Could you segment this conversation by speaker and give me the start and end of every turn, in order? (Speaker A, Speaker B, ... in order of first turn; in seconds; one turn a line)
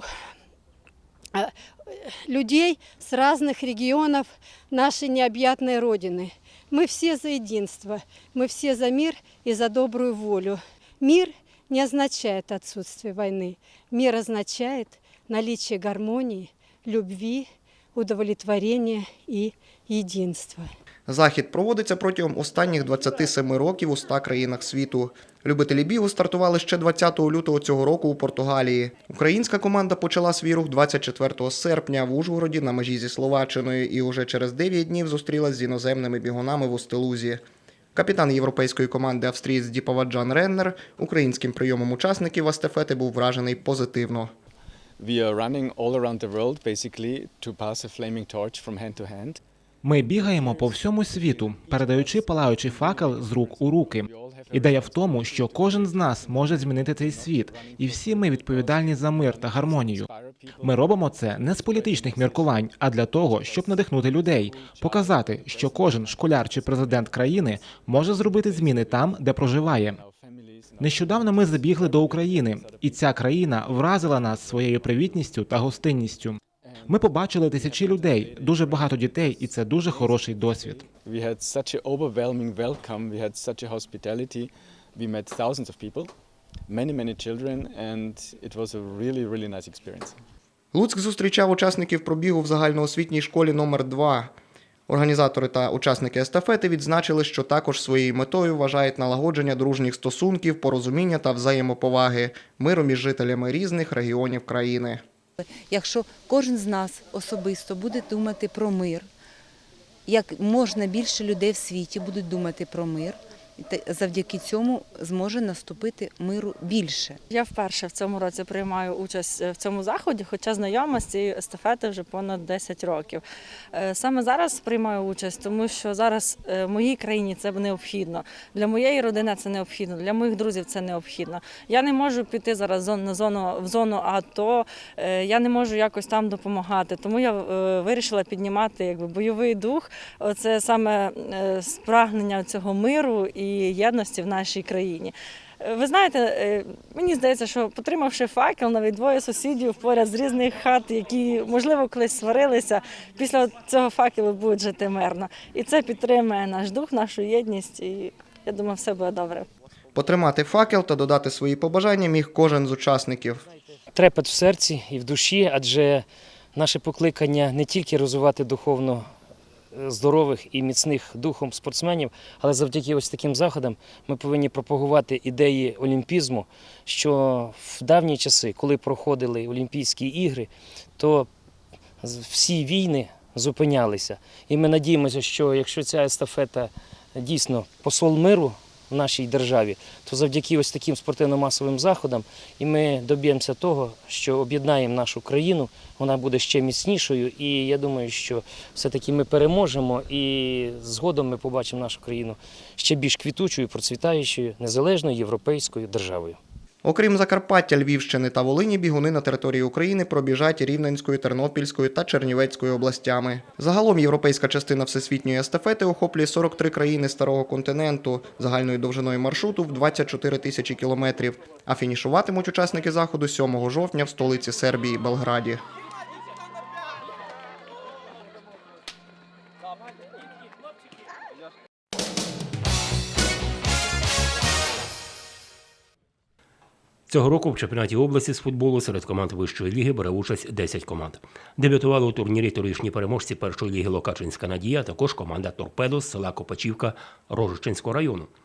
Speaker A: 1.3-20.7
Speaker B: 21.1-37.4
Speaker B: 38.0-44.3
Speaker C: 45.0-49.4
Speaker D: 49.8-60.1
Speaker C: 50.1-69.2
Speaker D: 60.6-70.0
Speaker C: 69.8-75.4
Speaker D: 70.8-80.9
Speaker C: 76.6-86.1
Speaker C: 86.7-90.2
Speaker B: 90.7-94.3
Speaker B: 94.9-105.0
Speaker E: 105.4-109.1
Speaker E: 110.1-117.2
Speaker F: 117.3-123.2
Speaker F: 123.7-159.5
Speaker B: 159.9-163.4
Speaker G: 163.9-169.1
Speaker G: 169.7-181.3
Speaker G: 182.0-206.4
Speaker B: 206.8-225.6
Speaker H: 237.1-248.3